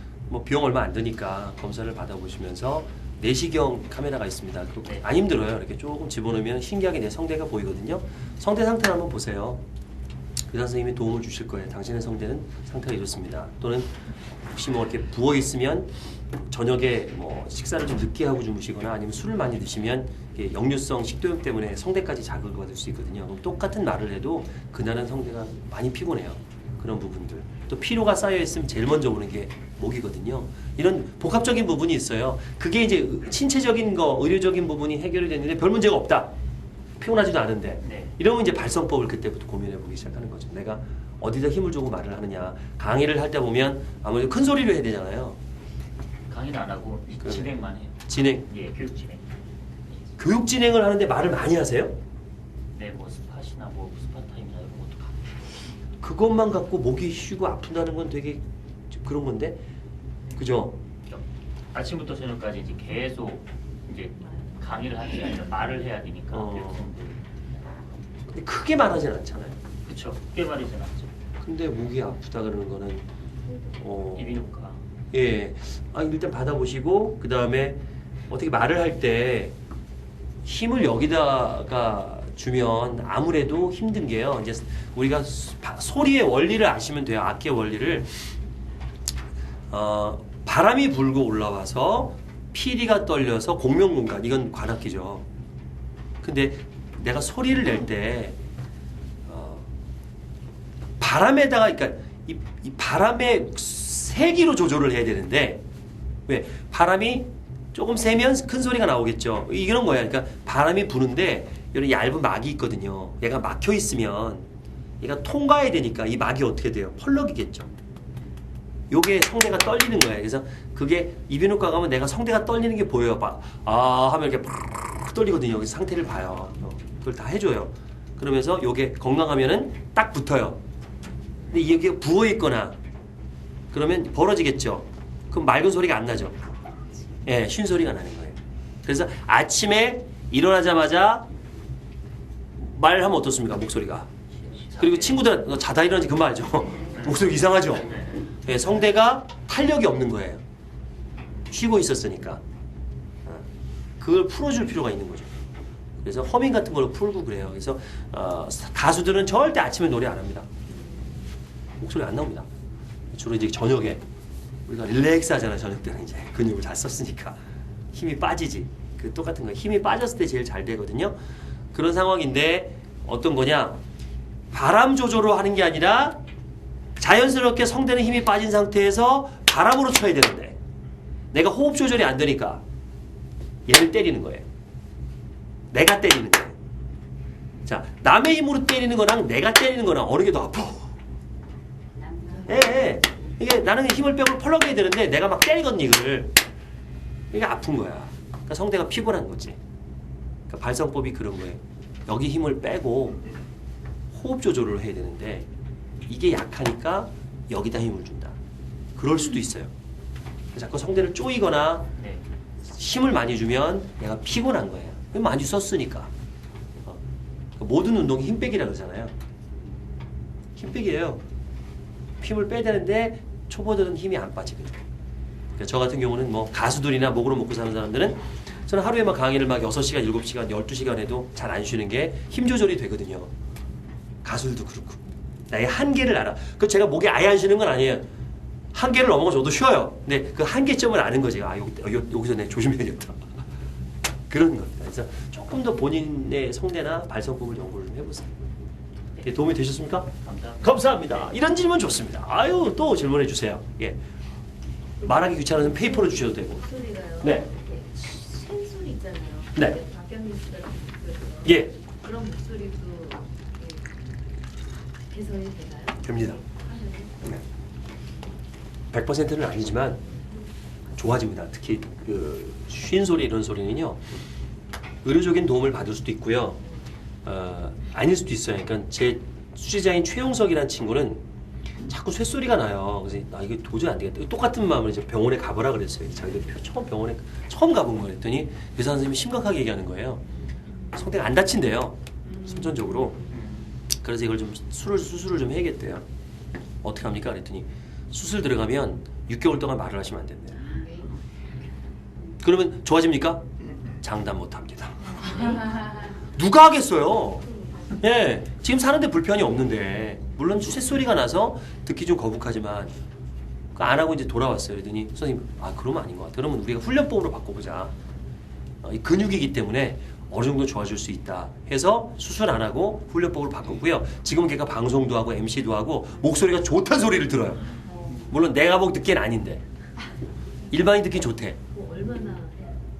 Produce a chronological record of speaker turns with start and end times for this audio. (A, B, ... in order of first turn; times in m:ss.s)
0:00.3-0:09.6 A
0:10.5-0:13.9 A
0:14.5-0:15.9 A
0:16.5-0:36.3 A
0:37.0-0:45.4 A
0:37.8-0:38.1 B
0:46.3-0:49.2 B
0:47.2-0:47.5 A
0:48.1-0:48.5 A
0:50.2-0:52.0 A
0:52.7-0:55.3 B
0:56.0-0:59.6 A
1:00.3-1:00.8 A
1:01.1-1:07.4 B
1:06.3-1:06.9 A
1:08.3-1:09.6 A
1:09.8-1:11.1 B
1:11.4-1:13.0 A
1:13.8-1:14.4 A
1:14.1-1:14.8 B
1:15.1-1:17.8 A
1:18.3-1:19.5 A
1:20.4-1:28.1 A
1:29.7-1:35.2 A
1:36.2-1:38.4 A
1:39.2-1:39.7 A
1:41.0-1:45.6 A
1:46.3-1:54.4 A
1:55.0-1:57.7 A
1:58.9-2:10.6 A
2:11.5-2:12.8 A
2:13.7-2:16.4 A
2:17.2-2:21.3 A
2:22.6-2:24.1 A
2:24.5-2:25.2 B
2:24.8-2:30.4 A
2:27.9-2:28.2 B
2:31.5-2:32.4 A
2:34.0-2:35.3 A
2:36.0-2:40.5 A
2:41.8-2:42.5 A
2:43.1-2:44.0 A
2:44.6-2:47.4 A
2:47.9-2:51.2 A
2:51.7-2:53.8 A
2:54.5-2:56.2 A
2:57.0-3:00.6 A
3:01.3-3:02.6 A
3:03.6-3:04.4 A
3:05.7-3:06.5 A
3:07.6-3:10.9 A
3:12.1-3:12.4 C
3:12.4-3:16.4 A
3:17.3-3:19.6 A
3:20.5-3:23.3 A
3:24.1-3:25.5 A
3:26.0-3:28.3 A
3:29.0-3:29.7 A
3:30.5-3:31.9 A
3:32.0-3:32.2 B
3:32.7-3:36.1 A
3:37.6-3:39.1 A
3:40.6-3:41.2 A
3:42.2-3:44.8 A
3:45.6-3:53.3 A
3:54.2-3:58.1 A
3:58.7-4:03.2 A
4:04.3-4:08.3 A
4:09.2-4:10.1 A
4:10.2-4:11.4 B
4:10.6-4:14.0 A
4:15.0-4:16.6 A
4:16.6-4:23.8 C
4:17.2-4:17.5 A
4:21.4-4:21.8 A
4:25.1-4:27.2 C
4:26.0-4:26.4 A
4:28.9-4:30.0 A
4:30.9-4:34.0 A
4:35.0-4:36.6 A
4:37.2-4:41.2 A
4:41.8-4:50.2 A
4:50.9-4:53.3 A
4:53.3-4:53.7 B
4:53.9-4:56.0 A
4:56.8-5:00.7 A
5:00.8-5:01.1 C
5:02.4-5:03.4 A
5:04.0-5:12.9 A
5:13.7-5:17.9 A
5:18.8-5:29.6 A
5:30.7-5:31.6 A
5:31.7-5:32.8 C